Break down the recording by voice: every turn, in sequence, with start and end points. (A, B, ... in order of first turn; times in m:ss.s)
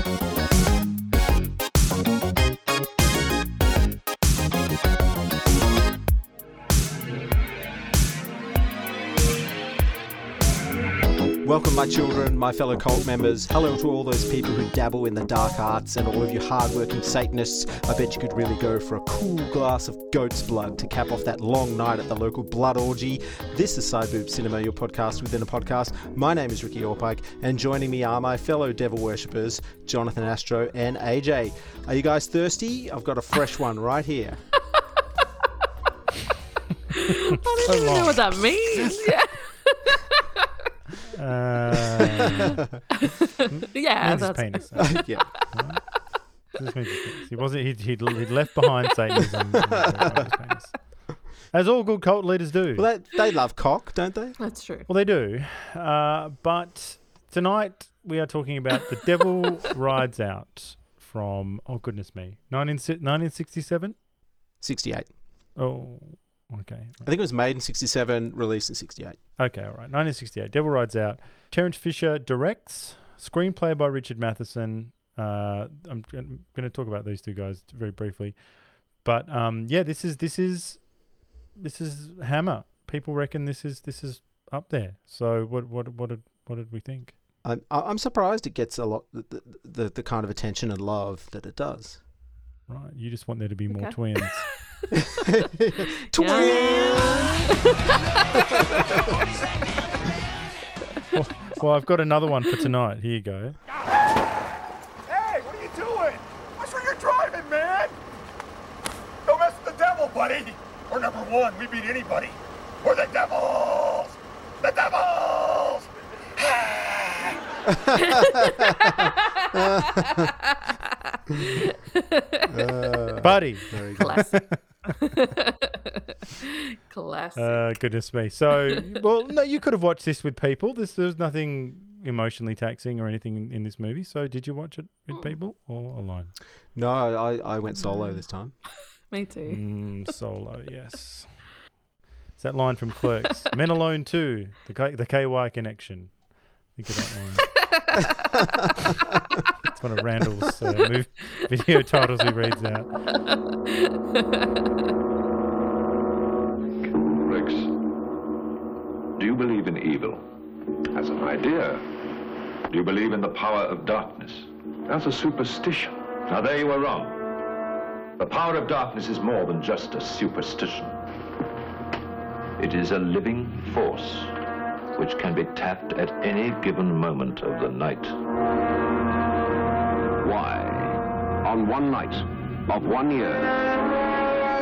0:11.4-0:34.5 A
0:37.0-0:40.1 B
0:37.7-0:38.2 C
0:41.1-0:42.6 C
0:43.0-0:45.2 B
0:43.5-0:52.9 C
0:44.8-0:45.3 A
0:49.9-0:50.2 A
0:52.8-0:54.4 A
0:54.4-0:54.9 B
0:54.9-1:04.0 C
1:04.6-1:05.1 A
1:05.6-1:07.0 C
1:07.0-1:09.2 A
1:09.4-1:21.0 C
1:21.5-1:27.2 C
1:27.4-1:32.0 A
1:32.7-1:34.5 C
1:33.7-1:34.5 B
1:35.1-1:37.4 A
1:36.1-1:37.7 B
1:38.3-1:38.6 A
1:41.1-1:43.6 C
1:45.5-1:45.9 D
1:46.8-1:47.7 D
1:49.6-1:50.3 D
1:51.5-1:52.2 D
1:57.7-2:00.3 A
1:58.1-1:58.9 B
2:01.4-2:02.4 B
2:02.5-2:04.4 A
2:03.2-2:04.7 C
2:04.0-2:06.0 B
2:06.9-2:08.0 B
2:07.4-2:16.3 C
2:16.7-2:18.6 A
2:17.9-2:18.2 B
2:19.1-2:19.6 B
2:19.4-2:21.6 C
2:22.4-2:27.6 C
2:27.6-2:28.0 B
2:29.6-2:33.0 C
2:34.1-2:34.4 B
2:36.9-2:37.7 E
2:39.2-2:40.2 E
2:40.9-2:41.9 E
2:42.7-2:47.2 E
2:48.2-2:51.0 E
2:52.6-2:54.4 E
2:54.9-2:58.2 E
3:00.2-3:03.5 F